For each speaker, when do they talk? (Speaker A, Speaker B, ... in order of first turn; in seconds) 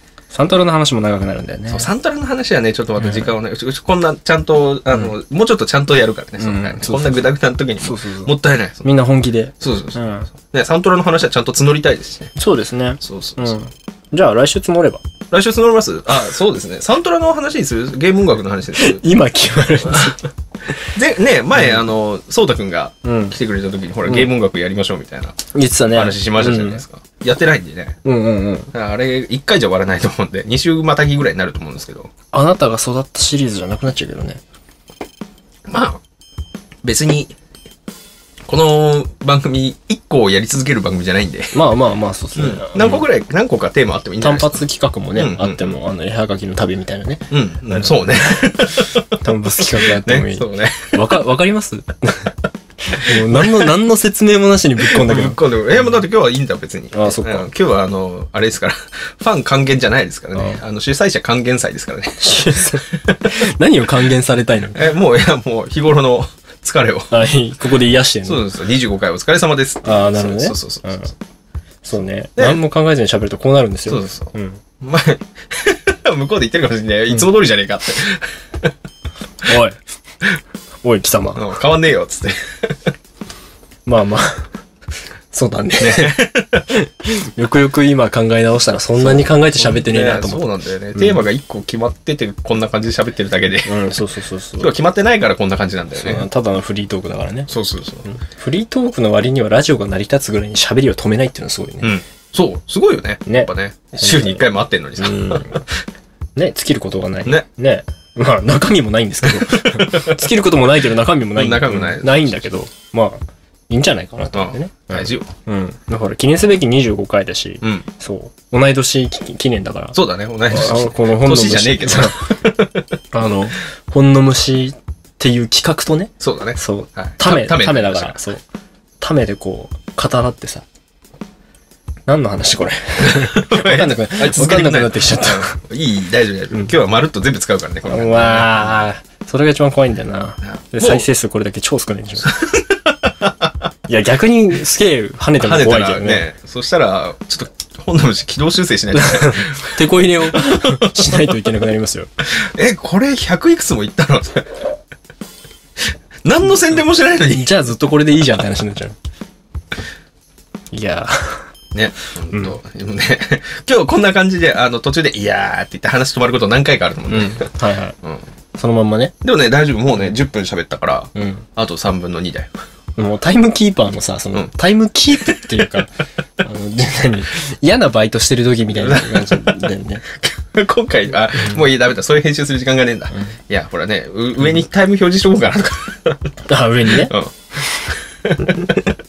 Speaker A: 0.3-1.9, 3.0-3.3, 6.4-7.2, 7.8-10.3, 12.3-15.0, 18.8-20.2, 23.1-23.4, 25.5-26.8, 28.1-28.7, 32.3-34.4, 41.5-43.0, 44.2-48.6, 49.2-52.3, 52.8-55.4, 56.9-57.5, 60.4-60.6, 62.2-64.8, 67.1-68.4, 69.8-71.1, 71.8-74.6, 79.5-79.8, 80.8-81.4, 83.9-84.5, 85.3-91.2, 93.7-94.7, 96.0-97.5, 98.0-101.9, 104.0-104.4, 105.0-105.6, 106.4-120.0, 120.5-122.3, 123.1-128.4, 129.0-130.7, 132.1-135.6, 137.9-142.4, 143.9-146.2, 148.9-152.1, 157.2-159.0, 160.7-161.5, 162.3-162.6, 167.1-168.0, 168.6-169.1, 171.2-171.4, 173.0-180.0, 186.5-187.2
Speaker B: 1.7-8.9, 9.6-12.3, 13.0-13.6, 15.3-19.0, 19.9-20.1, 20.9-25.4, 25.9-28.0, 28.7-32.1, 35.7-36.0, 36.8-37.4, 38.5-41.5, 42.4-44.6, 45.2-45.7, 47.3-49.1, 49.8-51.0, 53.1-53.7, 54.8-62.8, 64.7-67.2, 68.2-71.1, 73.9-78.7, 81.4-82.9, 85.8-86.7, 89.0-93.9, 94.6-96.2, 97.5-98.1, 101.8-105.7, 109.2-110.2, 111.4-112.5, 114.3-115.3, 119.9-122.9, 126.2-128.2, 133.0-138.8, 140.4-141.1, 142.2-143.5, 145.4-150.9, 152.4-154.6, 156.2-157.5, 161.7-167.5, 169.2-172.6, 175.2-175.7, 178.8-186.3, 186.9-187.3, 188.2-188.8